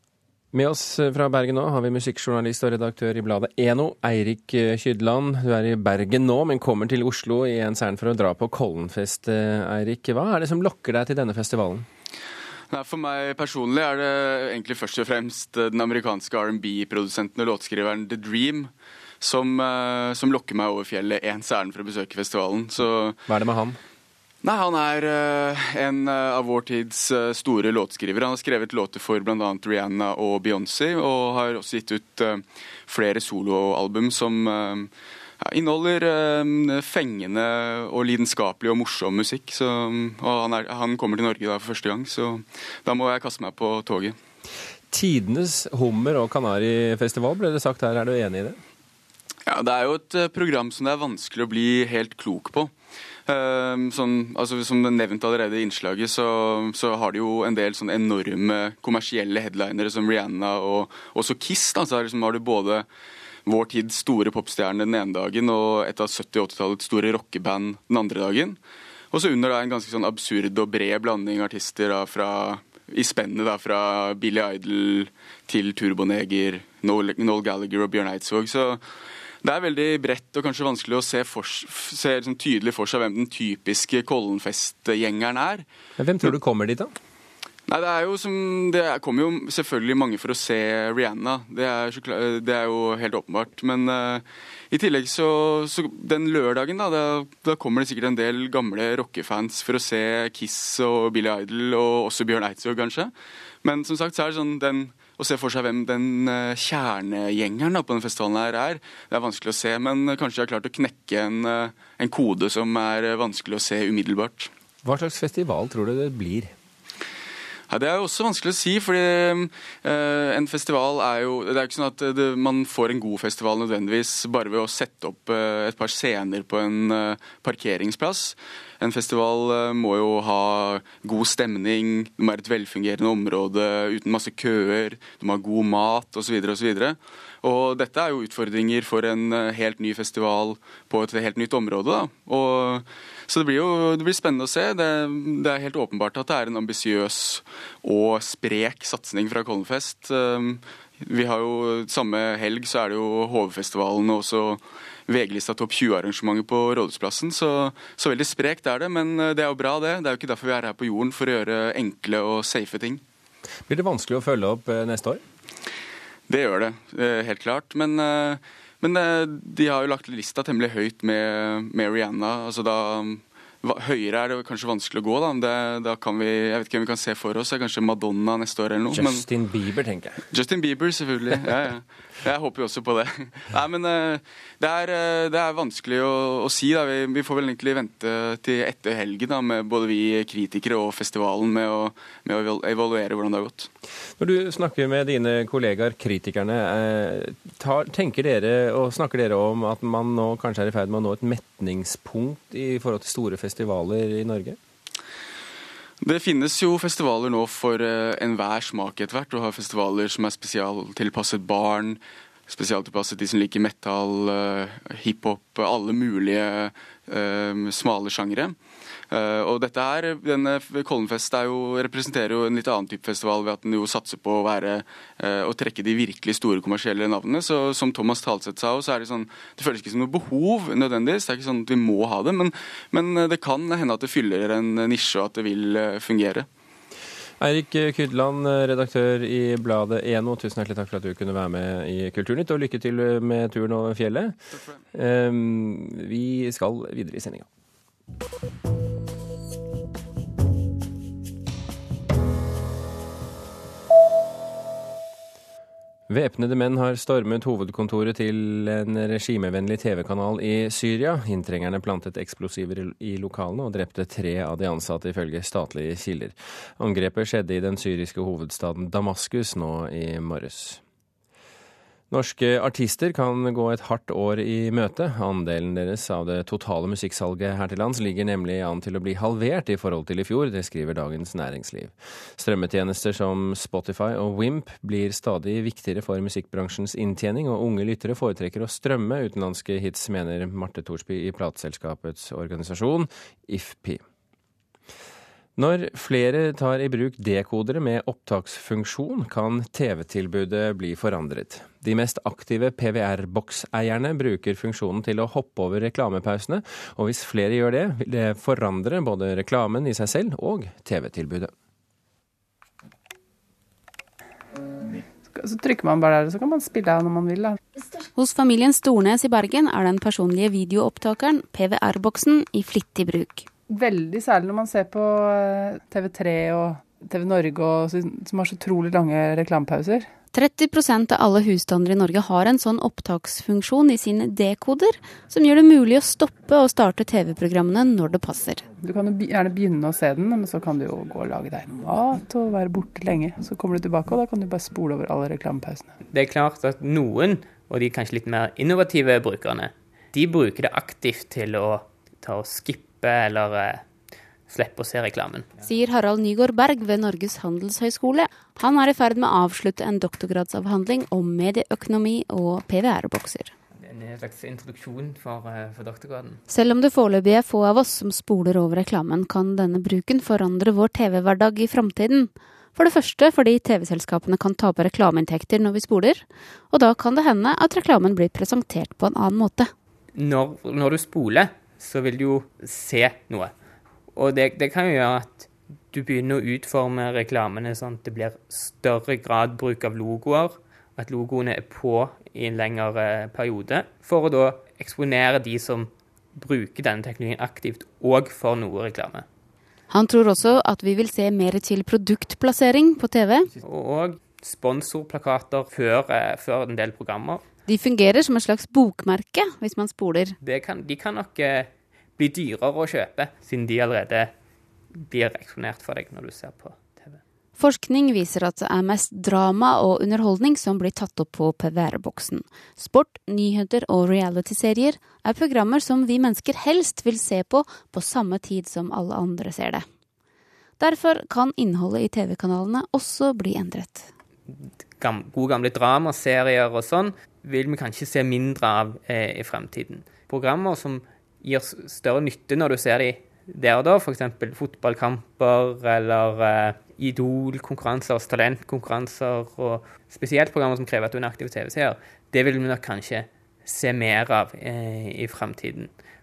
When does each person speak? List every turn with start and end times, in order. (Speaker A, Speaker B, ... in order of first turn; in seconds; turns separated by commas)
Speaker A: 0.5-11.9, Speaker B: 12.7-23.2, Speaker A: 23.3-23.8, Speaker B: 24.4-34.9, Speaker B: 35.4-44.2, Speaker A: 44.9-48.6, Speaker B: 49.5-52.7, Speaker B: 53.3-62.9, Speaker B: 63.5-68.6, Speaker B: 69.1-78.8, Speaker B: 79.4-85.7, Speaker A: 86.0-86.9, Speaker B: 87.7-103.1, Speaker B: 103.6-114.5, Speaker A: 114.8-116.5, Speaker B: 117.7-163.0, Speaker A: 163.7-165.2, Speaker B: 166.3-179.3, Speaker A: 178.9-180.2, Speaker B: 180.3-193.7, Speaker A: 194.2-204.6, Speaker B: 206.0-218.6, Speaker B: 219.1-236.5, Speaker A: 237.4-244.3, Speaker A: 244.9-247.5, Speaker A: 256.1-270.8, Speaker A: 272.1-294.0, Speaker A: 295.6-311.5, Speaker C: 315.3-317.6, Speaker D: 318.1-323.5, Speaker C: 323.7-330.1, Speaker D: 330.3-338.6, Speaker C: 338.8-345.9, Speaker E: 346.1-353.8, Speaker E: 354.5-355.5, Speaker D: 355.6-363.5, Speaker E: 363.8-366.4, Speaker D: 366.5-379.7, Speaker E: 380.2-383.5, Speaker E: 384.1-399.3, Speaker D: 399.9-403.5, Speaker E: 403.6-407.4, Speaker D: 407.7-410.4, Speaker E: 410.4-414.3, Speaker E: 415.0-417.2, Speaker D: 417.6-429.9, Speaker D: 430.8-434.1, Speaker E: 434.5-455.9